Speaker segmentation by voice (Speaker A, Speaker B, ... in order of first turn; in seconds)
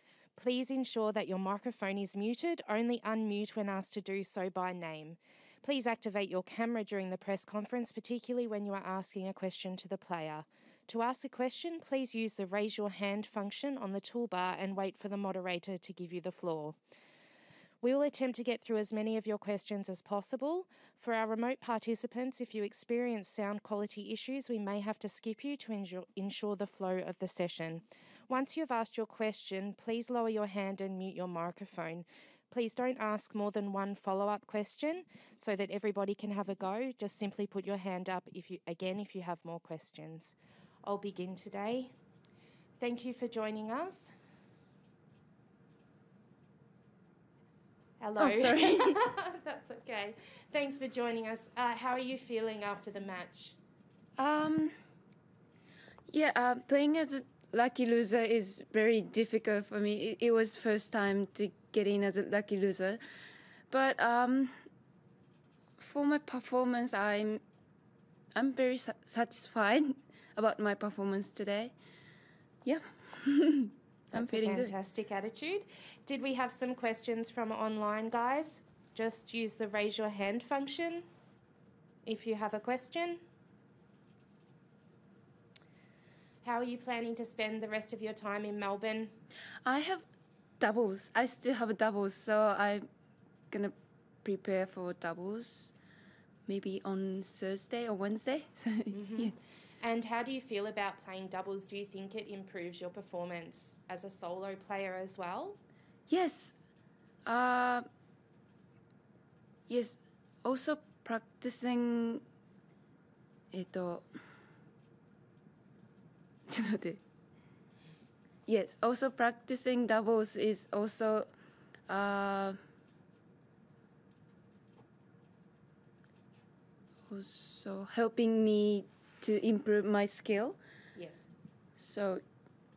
Speaker A: 0.4-16.8, 17.8-40.3, 40.9-41.9, 42.8-44.1, 48.0-53.6, 74.1-81.1, 82.0-83.2, 86.4-89.1, 98.9-105.6, 130.9-131.2
Speaker B: 48.2-49.0, 54.2-54.7, 56.1-63.0, 63.7-64.5, 65.8-67.4, 68.3-71.7, 72.6-74.7, 89.6-90.0, 90.6-92.8, 93.5-95.7, 96.5-99.3, 106.1-106.5, 107.2-107.9, 109.7-112.2, 113.5-114.0, 116.5-117.0, 118.5-121.3, 121.9-122.6, 127.1-130.6, 131.8-132.2